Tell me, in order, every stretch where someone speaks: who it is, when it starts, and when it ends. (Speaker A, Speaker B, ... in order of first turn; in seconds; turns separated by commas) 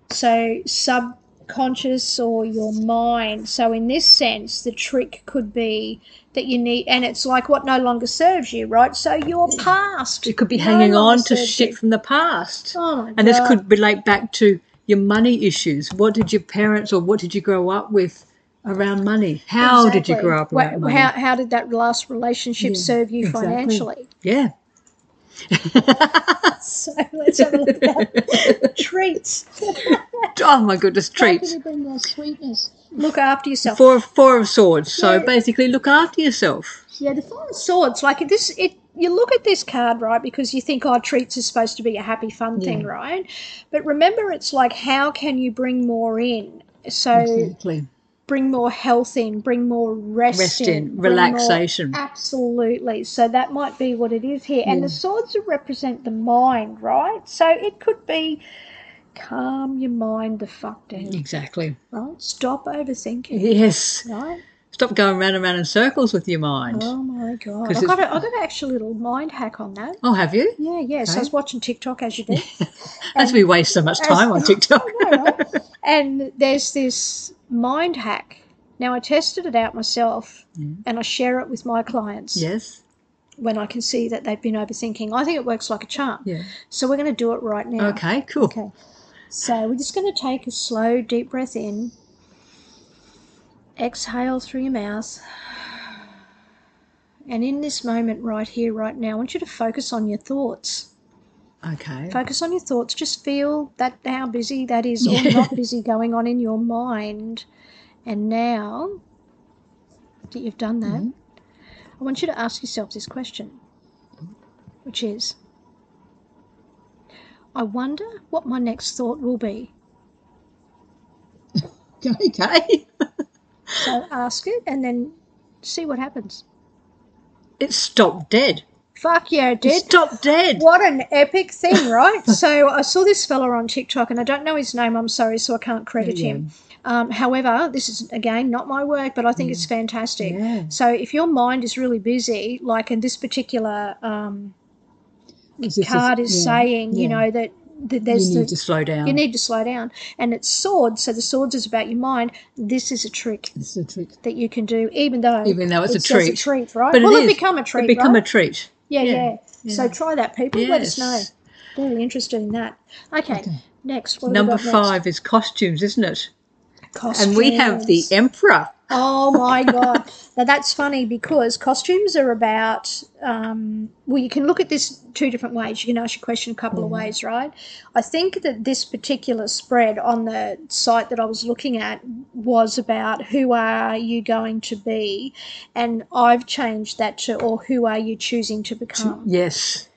Speaker A: 0.1-11.8, Speaker B: 10.2-21.1, Speaker A: 12.7-13.6, Speaker A: 19.6-24.1, Speaker B: 22.6-24.5, Speaker B: 25.5-26.6, Speaker A: 26.4-30.4, Speaker B: 27.4-28.8, Speaker B: 29.9-31.5, Speaker A: 31.2-33.9, Speaker B: 33.6-36.8, Speaker A: 35.0-35.3, Speaker A: 36.9-47.5, Speaker B: 42.6-42.9, Speaker B: 47.1-47.9, Speaker A: 48.3-58.4, Speaker B: 50.3-52.0, Speaker B: 54.6-55.0, Speaker A: 59.1-61.2, Speaker B: 61.0-61.8, Speaker A: 61.9-63.5, Speaker B: 63.3-64.1, Speaker A: 64.0-64.4, Speaker B: 64.7-66.9, Speaker A: 66.7-70.0, Speaker B: 67.7-68.2, Speaker B: 70.0-71.3, Speaker A: 70.6-72.5, Speaker B: 72.3-75.4, Speaker A: 73.1-82.5, Speaker B: 82.4-82.8, Speaker A: 83.4-88.7, Speaker B: 86.2-86.5, Speaker B: 87.8-88.5, Speaker A: 89.3-91.9, Speaker A: 93.8-96.0, Speaker A: 97.3-100.9, Speaker B: 101.6-102.2, Speaker A: 102.1-107.5, Speaker B: 105.0-105.5, Speaker A: 108.0-109.0, Speaker A: 110.3-111.1, Speaker B: 110.9-111.1, Speaker A: 112.0-113.6, Speaker A: 114.9-115.3, Speaker A: 117.5-119.7, Speaker B: 121.6-122.9, Speaker A: 123.8-126.4, Speaker B: 127.6-128.6, Speaker A: 128.9-130.0, Speaker B: 129.6-130.6, Speaker A: 130.5-144.5, Speaker B: 136.0-136.5, Speaker B: 139.4-139.7, Speaker B: 140.2-140.7, Speaker A: 145.6-153.5, Speaker B: 145.6-147.2, Speaker B: 148.1-149.2, Speaker B: 153.6-154.2, Speaker A: 154.2-158.2, Speaker B: 155.4-159.9, Speaker A: 158.9-164.9, Speaker B: 160.5-161.3, Speaker B: 164.2-166.3, Speaker A: 166.9-168.1, Speaker B: 167.1-170.0, Speaker A: 168.9-189.3, Speaker B: 176.7-177.1, Speaker B: 188.9-189.9